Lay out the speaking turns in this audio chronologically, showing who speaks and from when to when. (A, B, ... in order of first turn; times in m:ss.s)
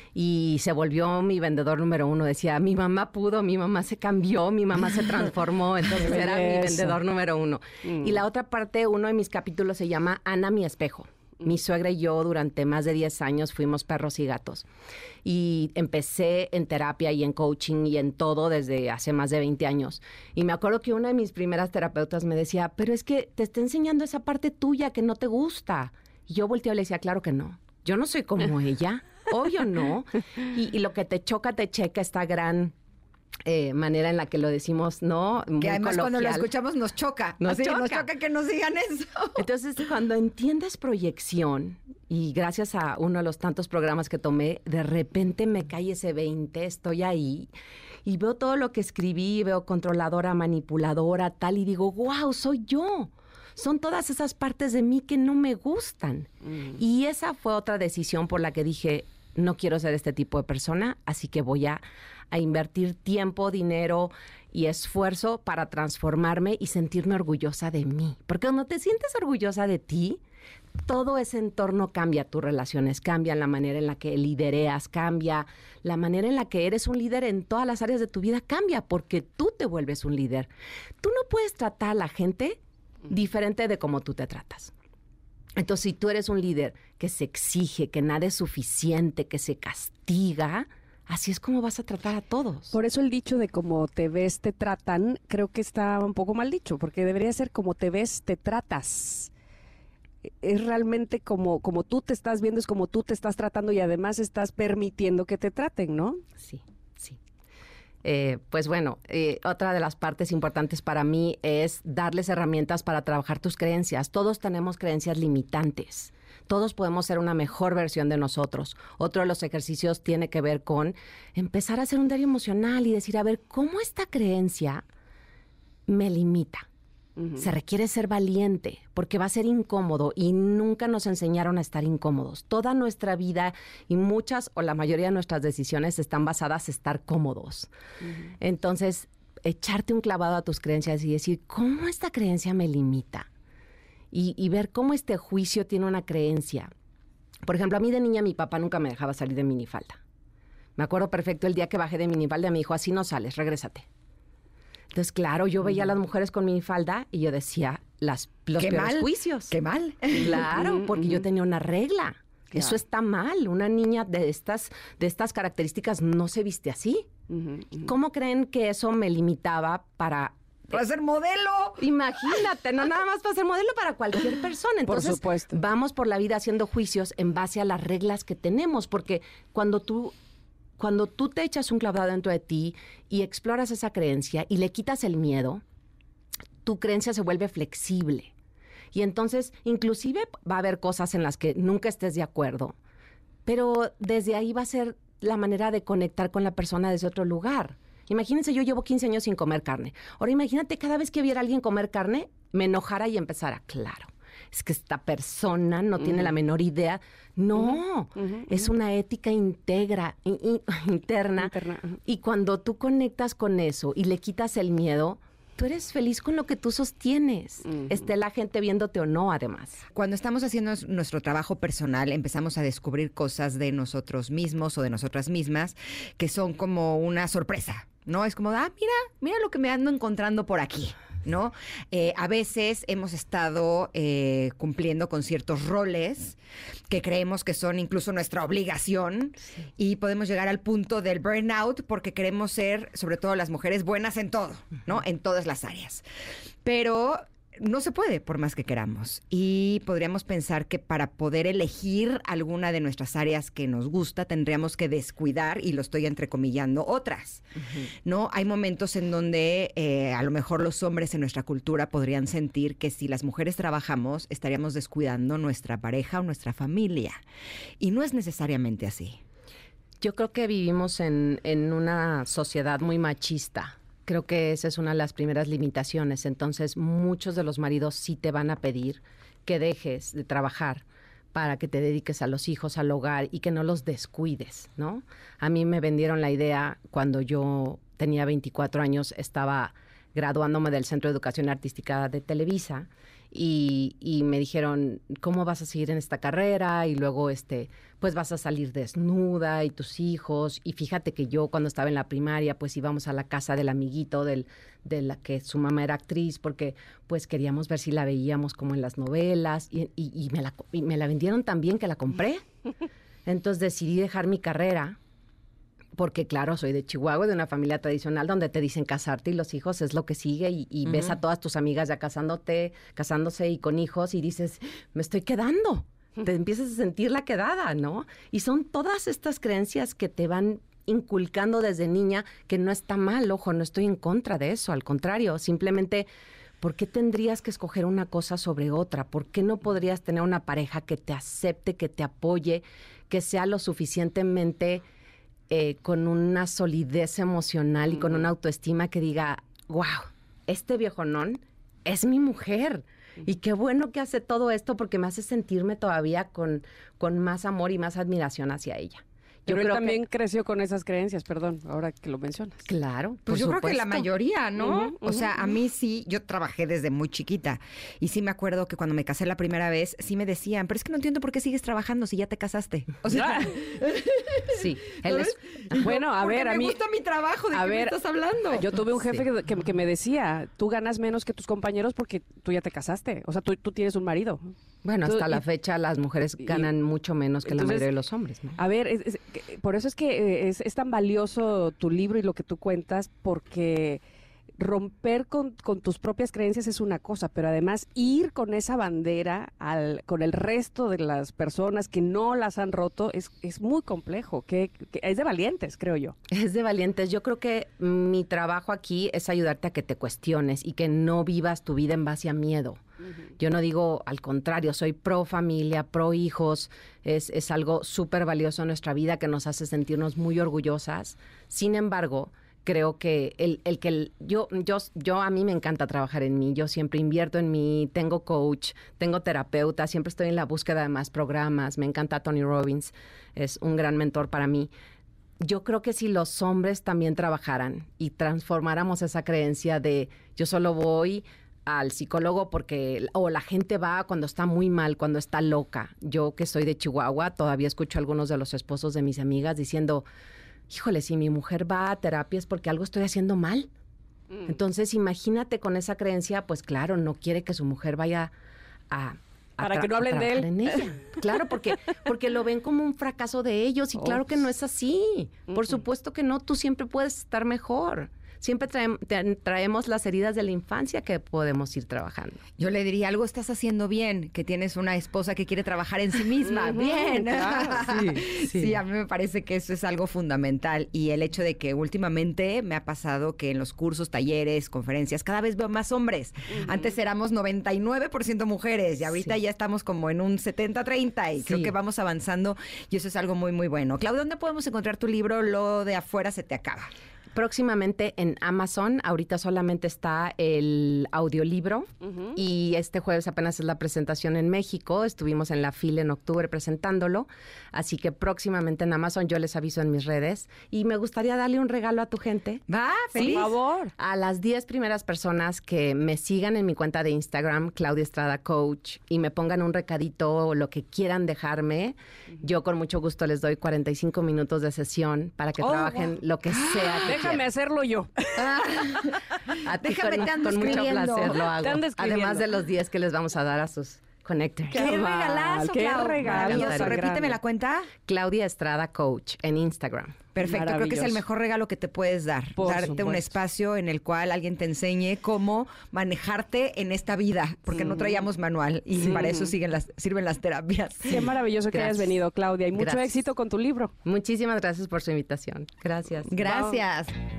0:00.1-0:14.6 A
0:05.9-0:07.0 B
0:07.8-0:08.2 B
0:15.2-0:32.7 A
0:33.4-0:36.5 A
0:35.6-0:39.4 C
0:37.4-0:38.1 A
0:39.4-0:47.5 A
0:48.0-1:10.2 A
1:10.8-1:24.7 A
1:25.6-1:32.7 A
1:32.7-1:39.3 B
1:40.3-1:46.2 B
1:46.4-1:47.2 A
1:48.0-2:04.8 A
2:05.9-2:06.7 A
2:07.2-2:07.5 B
2:07.4-2:17.7 A
2:18.4-2:23.3 A
2:24.1-2:26.7 A
2:27.4-2:30.0 A
2:30.8-2:33.8 A
2:34.9-2:39.6 A
2:38.6-2:40.5 C
2:40.1-2:47.1 A
2:40.5-2:41.2 B
2:42.5-2:42.8 B
2:47.3-2:47.9 B
2:47.8-2:50.7 A
2:50.7-2:51.8 C
2:51.8-3:00.1 A
2:54.8-2:55.6 B
3:00.8-3:05.6 A
3:06.6-3:08.3 A
3:08.9-3:12.7 A
3:13.4-3:31.5 A
3:26.0-3:26.3 B
3:27.5-3:28.7 B
3:31.4-3:32.0 B
3:32.0-3:39.8 A
3:37.7-3:38.1 B
3:39.9-3:56.4 C
3:56.9-4:06.0 C
4:06.6-4:17.4 C
4:18.0-4:27.2 C
4:27.8-4:29.2 C
4:30.0-5:12.4 A
5:13.2-5:15.0 A
5:16.0-5:36.1 A
5:20.8-5:21.2 C
5:36.6-5:44.8 A
5:45.5-6:00.0 A
5:59.5-6:02.7 B
6:02.7-6:04.1 A
6:03.2-6:18.7 C
6:04.6-6:05.3 B
6:13.1-6:13.5 B
6:14.5-6:15.8 A
6:15.8-6:16.8 B
6:17.5-6:25.5 B
6:24.8-6:28.6 A
6:26.4-6:26.7 B
6:27.4-6:27.9 B
6:28.5-6:34.0 B
6:34.6-6:46.1 B
6:46.3-6:52.8 A
6:53.4-7:14.7 A
7:15.4-7:30.0 A
7:30.7-7:33.7 A
7:34.4-7:38.3 A
7:38.9-7:52.4 A
7:39.6-7:41.4 B
7:43.9-7:44.3 B
7:45.5-7:45.8 B
7:52.6-8:16.9 C
7:56.4-7:57.7 B
7:57.6-7:58.7 A
8:06.5-8:06.9 B
8:11.4-8:11.7 A
8:17.3-8:32.6 A
8:32.7-8:33.5 C
8:33.1-8:33.9 B
8:33.2-8:33.4 A
8:34.0-8:47.4 A
8:45.6-8:46.2 B
8:47.0-8:49.0 B
8:48.4-8:49.2 C
8:49.6-8:54.9 A
8:49.8-8:51.5 C
8:51.5-8:52.6 B
8:54.7-8:57.4 B
8:54.7-8:57.9 C
8:56.2-8:56.9 A
8:58.0-9:00.2 A
9:00.3-9:11.2 C
9:00.4-9:01.2 B
9:02.5-9:03.3 B
9:07.8-9:08.2 B
9:09.0-9:09.5 B
9:11.0-9:13.9 B
9:11.7-9:12.1 A
9:12.7-9:13.1 A
9:14.0-9:16.4 A
9:16.3-9:17.1 C
9:16.4-9:16.8 B